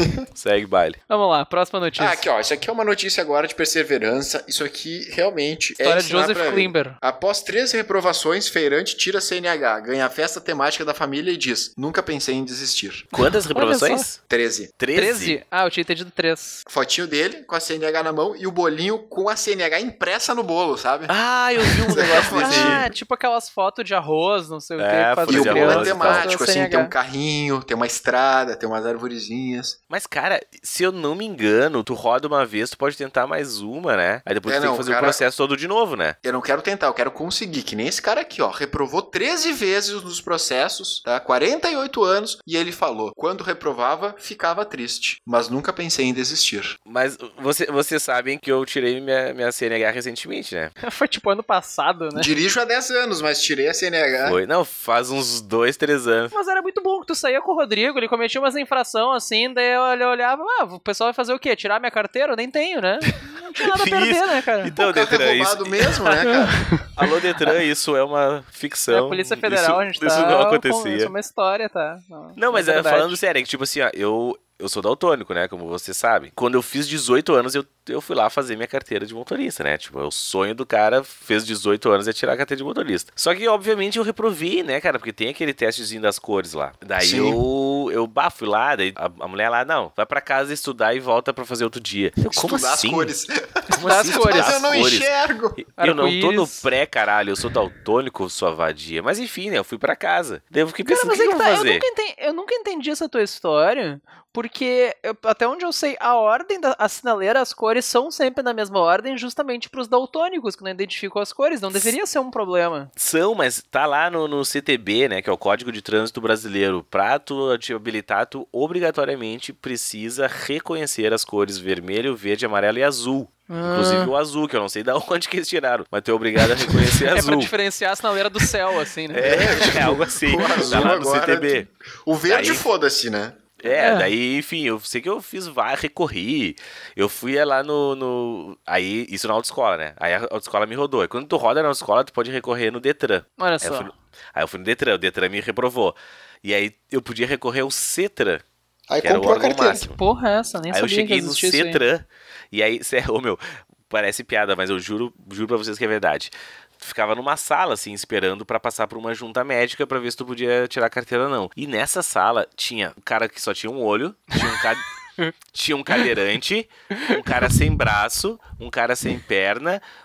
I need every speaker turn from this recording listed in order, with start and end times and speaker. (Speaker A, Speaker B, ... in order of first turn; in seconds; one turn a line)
Speaker A: 0.3-1.0
Speaker B: 1.1-2.3
Speaker C: 2.0-13.1
Speaker B: 5.8-7.0
Speaker A: 13.1-14.2
Speaker B: 13.5-14.1
Speaker C: 14.3-14.7
Speaker A: 14.8-15.4
Speaker B: 14.9-16.6
Speaker C: 16.7-21.1
Speaker A: 21.1-22.9
Speaker C: 21.9-22.9
Speaker B: 22.3-26.9
Speaker A: 24.8-26.3
Speaker C: 25.3-29.8
Speaker A: 29.9-36.2
Speaker C: 34.5-35.2
Speaker C: 36.2-46.8
Speaker A: 46.9-50.7
Speaker B: 50.8-52.3
Speaker C: 52.1-54.4
Speaker A: 54.2-56.3
Speaker B: 56.3-64.7
Speaker A: 63.6-66.1
Speaker C: 64.8-66.6
Speaker B: 66.2-66.8
Speaker A: 66.9-71.1
Speaker B: 68.9-73.2
Speaker A: 72.4-93.1
Speaker C: 87.0-87.4
Speaker C: 92.3-95.6
Speaker A: 93.7-101.8
Speaker B: 93.8-94.6
Speaker B: 95.8-96.6
Speaker B: 100.9-112.9
Speaker A: 113.0-127.5
Speaker B: 123.5-124.1
Speaker C: 126.6-126.9
Speaker B: 127.1-129.7
Speaker A: 129.1-131.7
Speaker C: 129.2-133.4
Speaker A: 132.3-132.7
Speaker A: 133.6-148.4
Speaker B: 133.7-134.1
Speaker B: 143.4-143.9
Speaker C: 148.9-149.9
Speaker A: 149.0-150.0
Speaker B: 149.9-151.8
Speaker A: 150.7-164.8
Speaker A: 165.5-169.8
Speaker B: 166.9-167.5